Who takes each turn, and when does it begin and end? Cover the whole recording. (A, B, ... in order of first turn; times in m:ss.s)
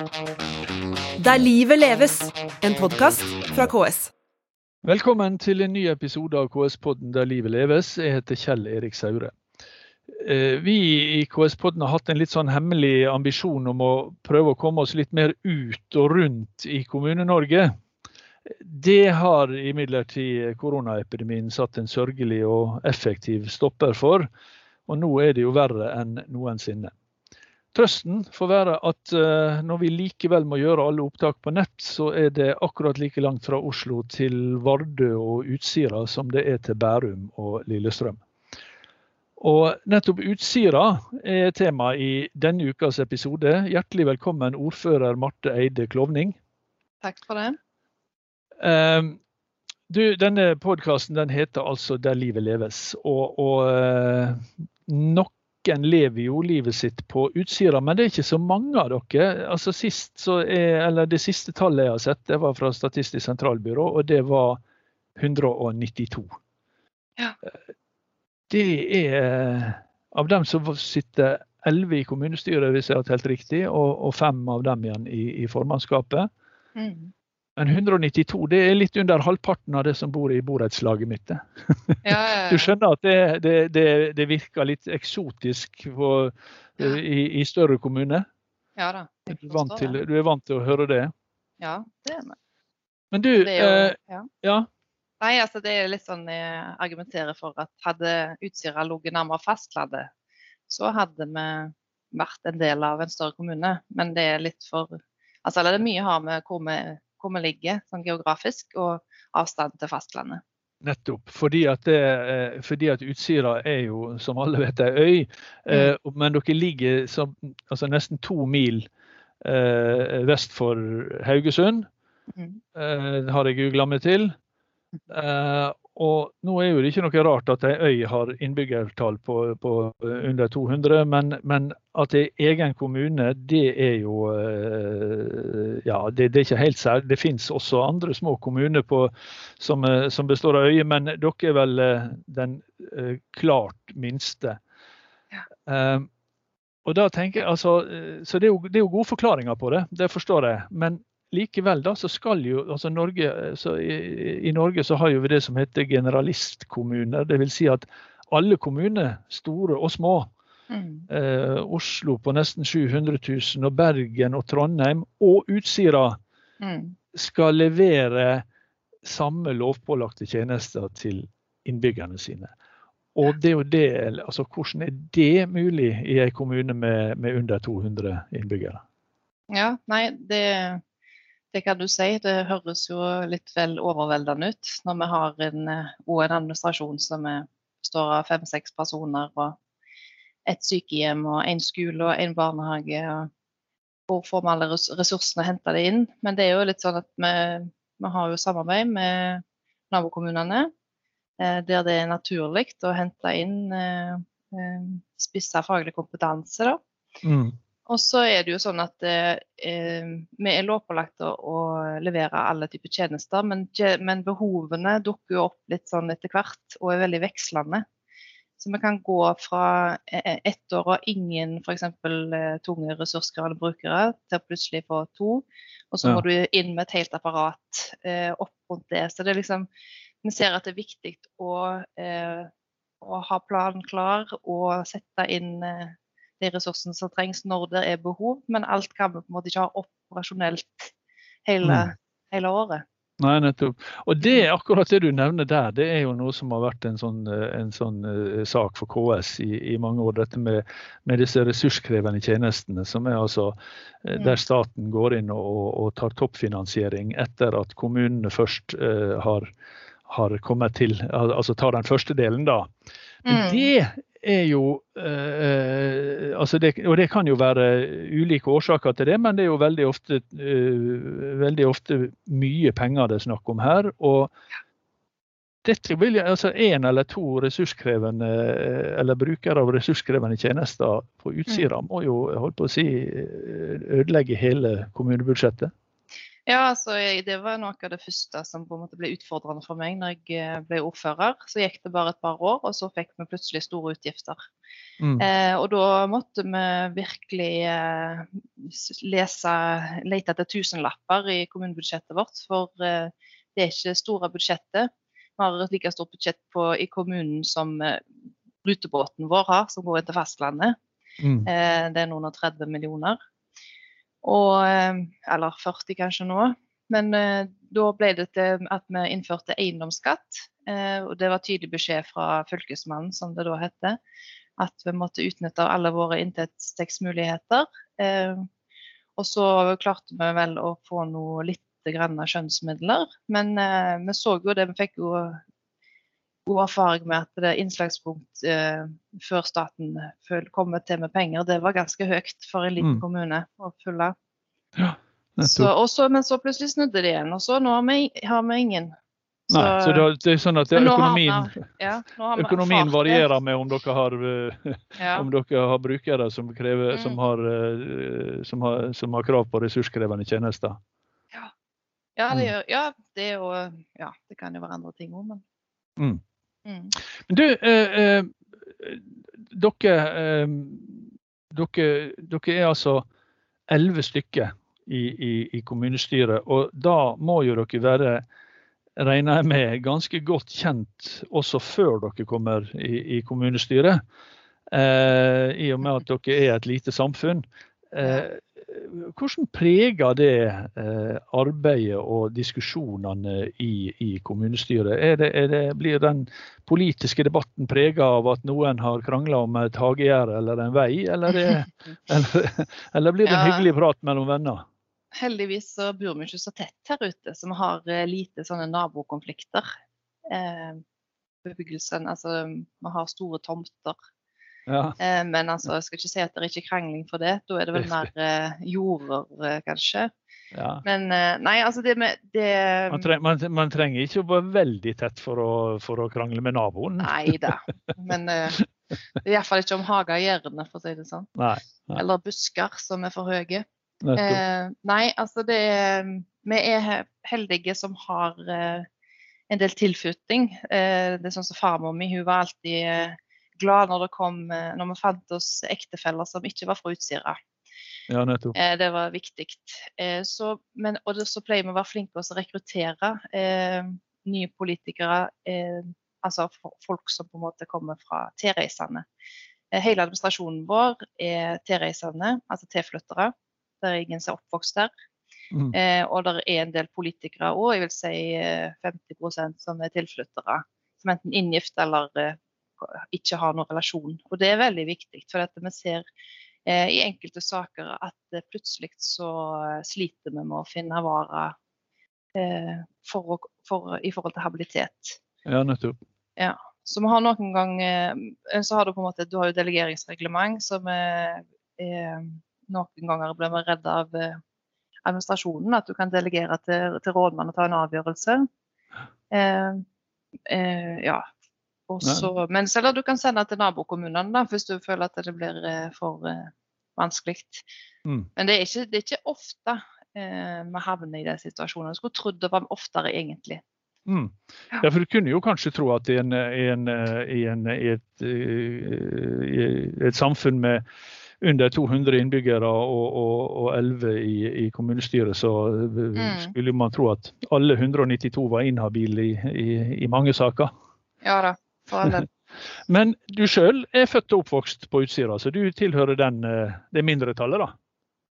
0:01.2-0:04.1 A
0:04.8-0:09.3 B
0:10.1-0:17.7 B
0:18.5-0:24.3 B
0:24.9-0:26.9 B
0:27.7-0:38.2 B
0:39.4-0:46.4 B
0:47.0-0:47.6 C
0:48.6-0:49.2 B
0:49.9-1:04.6 B
1:05.2-1:06.3 B
1:08.5-1:16.3 B
1:16.8-1:17.1 C
1:17.6-1:28.2 B
1:22.0-1:22.7 C
1:28.8-1:30.0 C
1:29.4-1:31.1 B
1:31.6-1:32.4 C
1:33.1-1:34.7 B
1:33.4-1:34.3 C
1:35.2-1:40.1 C
1:40.7-1:50.4 C
1:50.8-1:58.9 B
1:55.7-1:55.9 C
1:59.4-2:01.9 B
2:02.4-2:02.6 C
2:02.8-2:04.4 B
2:05.1-2:24.6 B
2:25.7-2:26.1 B
2:26.8-2:40.3 B
2:40.7-2:41.1 C
2:41.1-2:46.2 B
2:46.6-2:47.0 C
2:47.1-2:48.4 B
2:49.0-2:52.5 B
2:53.2-2:58.8 B
2:59.5-3:00.8 C
3:01.5-3:09.6 C
3:10.5-3:13.3 C
3:14.1-3:20.7 C
3:21.4-3:26.8 C
3:27.2-3:27.6 B
3:27.9-3:37.8 C
3:38.6-3:49.7 C
3:50.2-3:52.5 C
3:53.0-4:00.9 C
4:01.4-4:02.8 C
4:01.6-4:01.9 B
4:03.2-4:19.5 B
4:20.1-4:22.7 B
4:23.3-4:23.7 C
4:23.3-4:34.3 B
4:35.6-4:45.7 B
4:46.5-4:54.4 C
4:55.0-4:55.2 B
4:55.2-5:08.1 C
5:08.6-5:10.8 C
5:11.2-5:11.5 B
5:11.5-5:13.2 C
5:14.2-5:24.0 C
5:24.6-5:28.5 C
5:29.2-5:35.4 C
5:36.5-5:44.1 C
5:42.8-5:43.0 B
5:44.8-5:45.7 B
5:45.4-5:48.9 C
5:49.5-5:50.0 C
5:49.5-5:51.6 B
5:50.8-5:53.3 C
5:52.4-6:00.8 B
5:55.0-5:55.3 C
5:56.9-5:57.2 C
6:02.2-6:05.4 C
6:06.6-6:07.0 C
6:07.3-6:13.1 B
6:13.7-6:18.2 B
6:19.0-6:24.0 B
6:24.7-6:44.6 B
6:28.0-6:28.3 C
6:43.2-6:43.7 C
6:45.2-6:49.7 C
6:50.3-6:50.8 C
6:51.4-6:54.0 C
6:54.7-6:55.0 B
6:55.0-7:00.1 C
6:57.8-6:58.1 B
7:00.5-7:00.8 B
7:00.8-7:03.1 C
7:02.9-7:07.6 B
7:07.0-7:08.6 C
7:09.2-7:11.3 C
7:11.4-7:12.0 B
7:12.0-7:13.6 C
7:14.0-7:14.4 B
7:14.2-7:18.9 C
7:19.5-7:27.4 C
7:28.1-7:28.6 B
7:28.6-7:39.1 C
7:39.7-7:44.9 C
7:45.7-7:56.0 C
7:56.7-8:01.6 C
8:02.4-8:05.2 C
8:05.5-8:06.0 B
8:06.4-8:14.4 C
8:15.0-8:18.4 C
8:19.3-8:19.8 C
8:20.5-8:21.2 C
8:21.9-8:27.6 C
8:22.0-8:22.3 B
8:28.4-8:33.6 C
8:34.1-8:40.8 B
8:41.4-8:50.7 B
8:46.2-8:46.5 C
8:51.2-8:52.3 C
8:52.9-8:57.7 B